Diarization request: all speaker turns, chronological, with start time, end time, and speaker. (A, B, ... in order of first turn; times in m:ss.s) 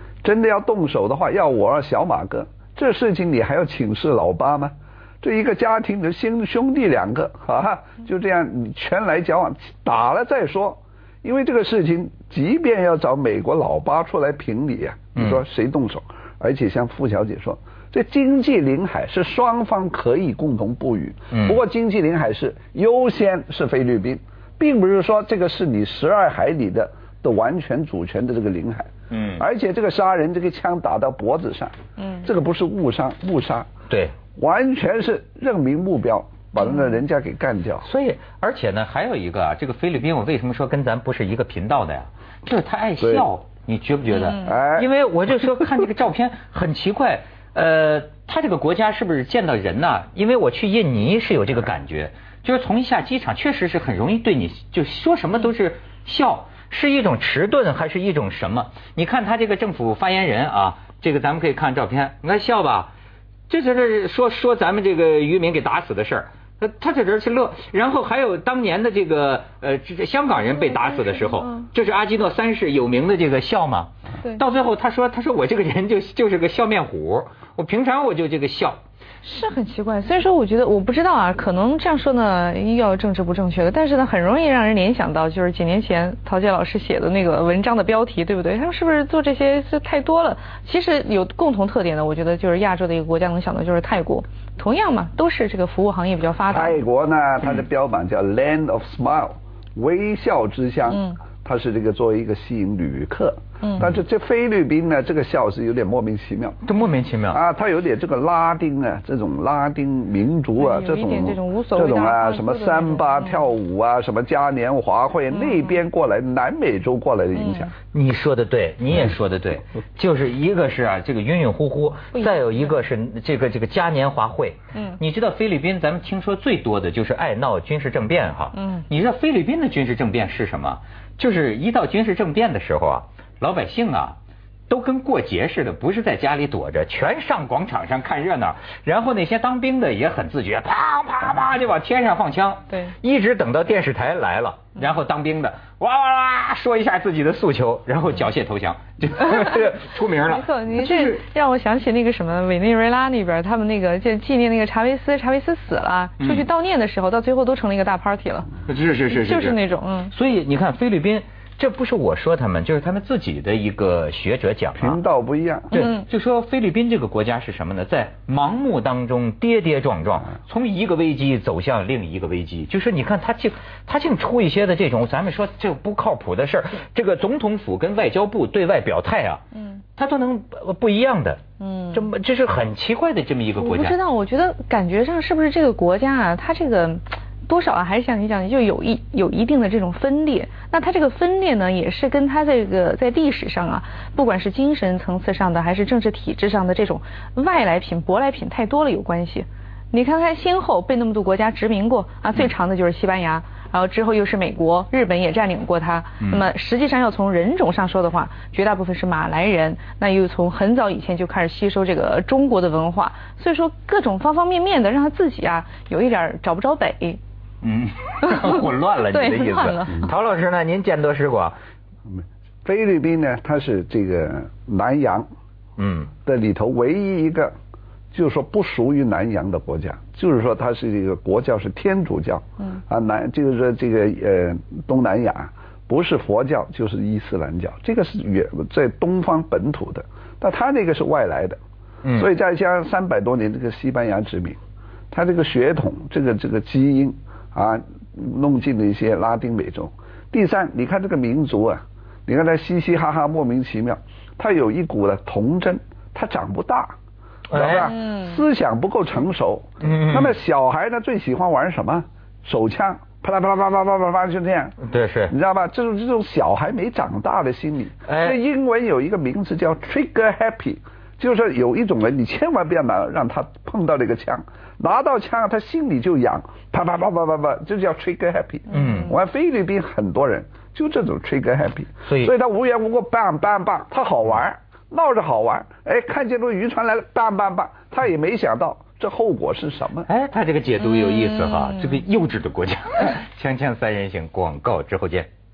0:00.2-0:33.7 A
0:15.2-0:15.4 B
0:21.3-0:21.6 B
0:29.1-0:29.4 B
0:32.0-0:32.3 C
0:33.9-0:34.2 B
0:34.4-0:37.9 A
0:36.6-0:36.9 C
0:37.8-1:02.9 B
0:43.0-0:43.3 A
0:44.1-0:44.6 C
0:44.4-0:44.9 A
1:03.5-1:18.8 B
1:10.4-1:11.7 C
1:19.2-1:36.8 C
1:36.5-1:46.6 A
1:40.9-1:41.2 C
1:43.6-1:43.9 C
1:46.6-1:47.4 B
1:47.3-1:57.7 A
1:50.6-1:53.4 C
1:55.3-1:55.8 C
1:57.4-1:57.7 C
1:57.9-2:14.2 B
2:02.1-2:02.7 C
2:04.7-2:05.0 C
2:08.5-2:08.9 C
2:14.7-2:31.2 B
2:22.7-2:23.0 C
2:30.2-2:38.6 C
2:36.2-2:36.5 B
2:38.7-2:39.6 B
2:39.1-2:40.1 C
2:40.1-2:45.0 B
2:44.8-2:45.8 A
2:45.7-2:59.4 B
2:45.7-2:46.0 C
2:59.6-2:59.8 C
3:00.0-3:01.4 B
3:01.6-3:02.1 C
3:01.9-3:04.0 B
3:03.6-3:37.2 C
3:26.2-3:26.5 B
3:37.6-3:41.6 B
3:38.2-3:40.1 C
3:42.1-3:45.3 A
3:45.8-3:46.1 B
3:46.2-3:47.5 A
3:48.1-4:01.6 A
4:02.0-4:02.3 B
4:02.2-4:04.6 A
4:05.1-4:16.9 A
4:17.5-4:17.9 B
4:17.5-4:24.8 A
4:17.8-4:18.4 C
4:19.8-4:20.4 B
4:24.8-4:25.4 B
4:25.3-4:50.1 A
4:28.1-4:28.4 B
4:38.7-4:39.1 B
4:42.1-4:42.3 B
4:50.1-4:55.3 B
4:50.8-4:52.0 C